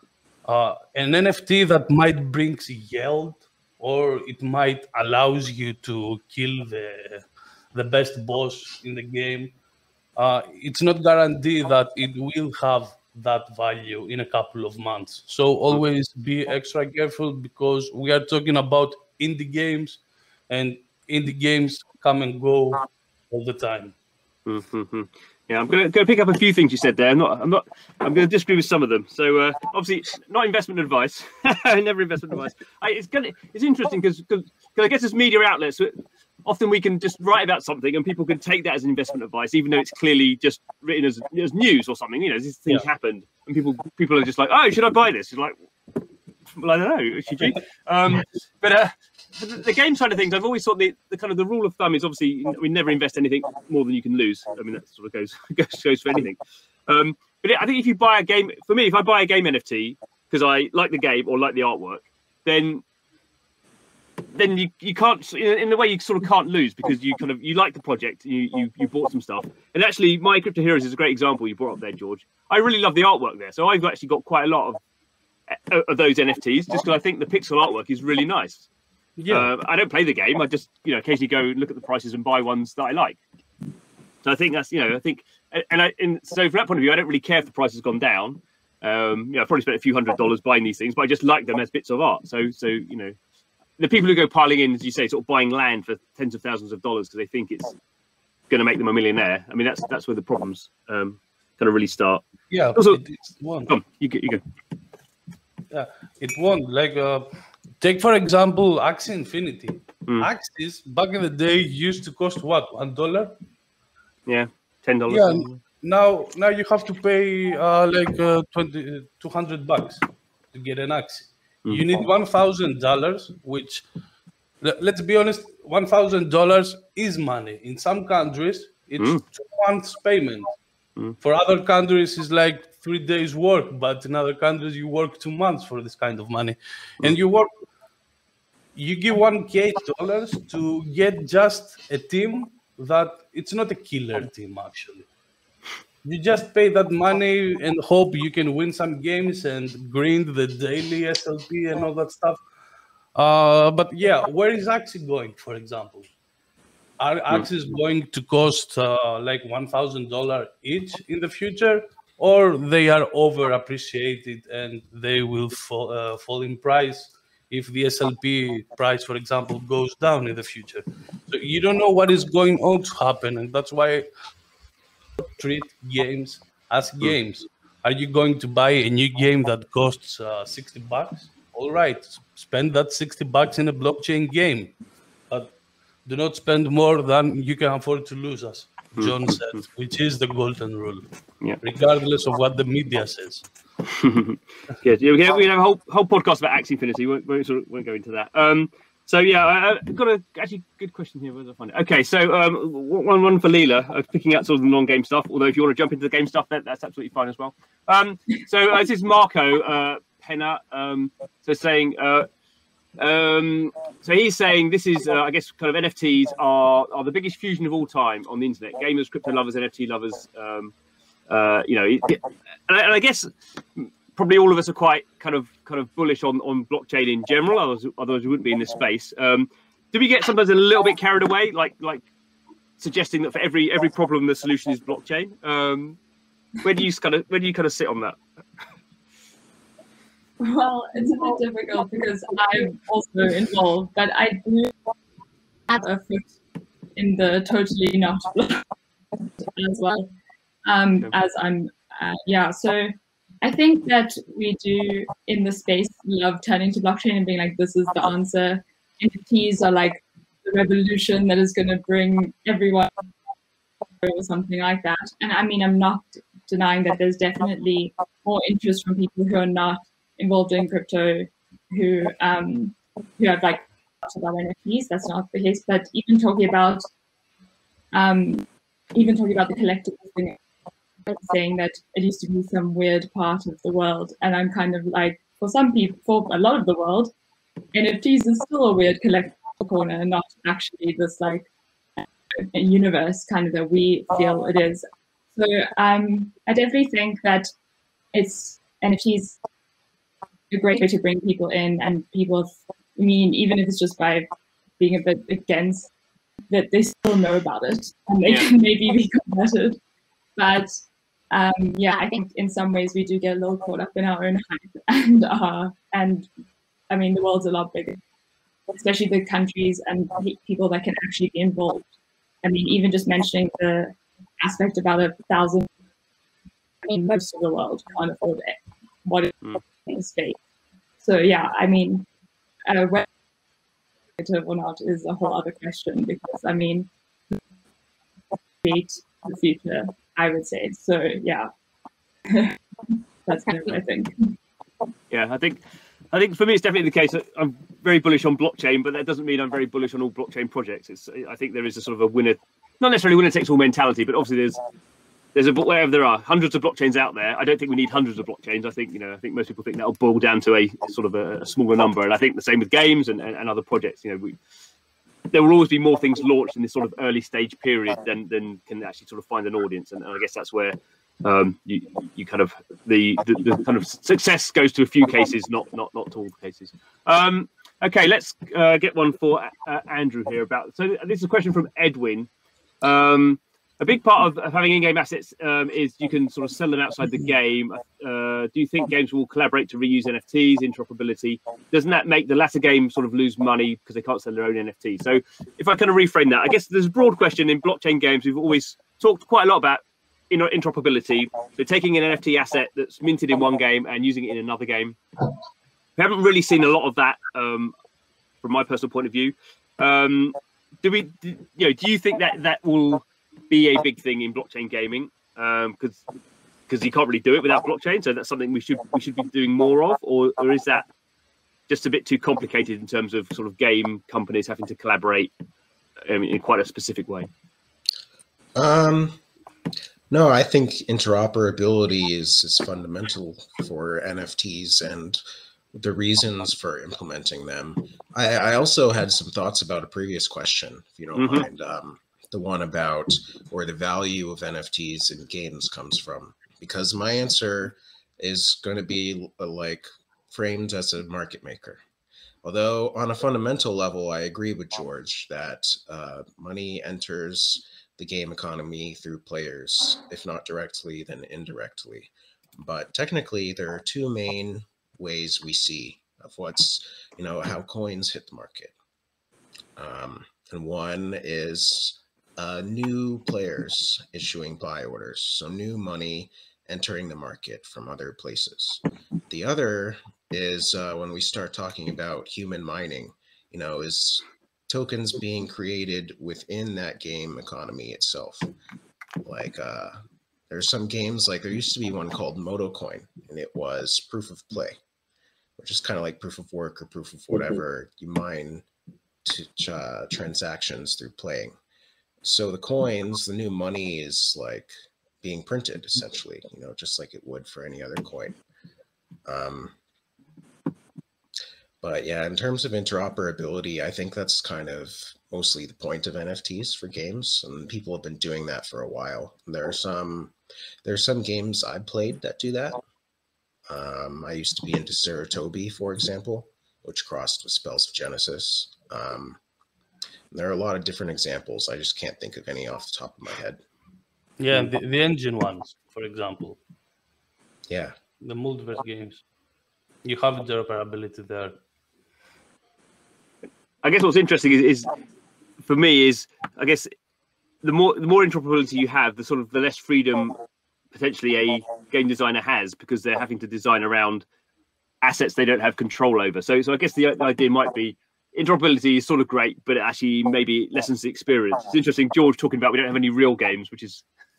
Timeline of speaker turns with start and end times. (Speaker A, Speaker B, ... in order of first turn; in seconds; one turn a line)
Speaker A: 0.5-9.5
Speaker A: 10.2-23.9
Speaker B: 24.4-45.5
Speaker B: 46.6-62.8
Speaker B: 64.3-74.8
Speaker B: 75.5-78.7
Speaker A: 79.2-79.5
Speaker B: 79.3-83.2
Speaker B: 84.2-93.2
Speaker B: 93.8-97.8
Speaker B: 98.5-102.2
Speaker A: 102.5-103.7
Speaker B: 102.8-103.0
Speaker B: 103.7-104.4
Speaker A: 105.7-107.3
Speaker A: 107.8-113.3
Speaker B: 114.2-115.6
Speaker A: 115.1-123.8
Speaker A: 124.6-130.5
Speaker B: 129.0-129.2
Speaker A: 131.2-137.5
Speaker A: 138.7-145.1
Speaker A: 146.0-152.4
Speaker A: 153.2-156.1
Speaker A: 157.0-174.1
Speaker A: 175.4-184.7
Speaker A: 186.0-191.0
Speaker B: 189.0-189.6
Speaker A: 191.6-193.4
Speaker B: 193.9-212.2
Speaker B: 213.0-220.7
Speaker B: 221.3-232.1
Speaker B: 232.8-236.0
Speaker B: 236.6-238.2
Speaker C: 240.4-244.7
Speaker C: 245.7-246.3
Speaker C: 246.9-248.7
Speaker C: 249.4-250.1
Speaker C: 250.7-262.9
Speaker C: 264.0-276.8
Speaker C: 277.9-280.4
Speaker C: 281.1-287.1
Speaker C: 287.7-297.5
Speaker C: 298.1-299.4
Speaker C: 300.5-304.3
Speaker C: 304.8-305.9
Speaker C: 306.5-309.8
Speaker C: 310.4-310.8
Speaker C: 311.3-316.3
Speaker C: 316.9-318.0
Speaker C: 318.7-321.9
Speaker C: 322.4-325.7
Speaker C: 326.8-329.3
Speaker C: 329.9-330.4
Speaker C: 331.0-332.0
Speaker C: 332.7-333.1
Speaker C: 334.2-336.9
Speaker C: 338.6-341.5
Speaker C: 342.3-342.6
Speaker C: 343.2-344.3
Speaker B: 345.1-345.6
Speaker B: 346.1-354.6
Speaker B: 355.3-364.4
Speaker B: 365.3-382.3
Speaker B: 382.8-405.0
Speaker B: 406.0-407.7
Speaker B: 408.4-416.0
Speaker B: 416.7-420.9
Speaker B: 421.7-425.3
Speaker B: 426.1-427.3
Speaker D: 428.5-429.2
Speaker D: 430.1-435.2
Speaker D: 435.7-451.8
Speaker B: 441.1-441.5
Speaker D: 452.4-468.7
Speaker D: 469.8-488.5
Speaker D: 489.2-494.8
Speaker D: 495.6-498.6
Speaker D: 499.2-501.5
Speaker D: 502.2-508.4
Speaker D: 509.2-509.7
Speaker D: 511.8-522.8
Speaker D: 523.7-529.4
Speaker D: 530.3-533.6
Speaker A: 534.4-536.6
Speaker D: 537.7-537.9
Speaker A: 538.2-539.2
Speaker A: 540.0-541.6
Speaker B: 543.8-544.9
Speaker B: 545.6-546.9
Speaker B: 547.6-550.4
Speaker B: 550.9-554.2
Speaker B: 555.0-564.0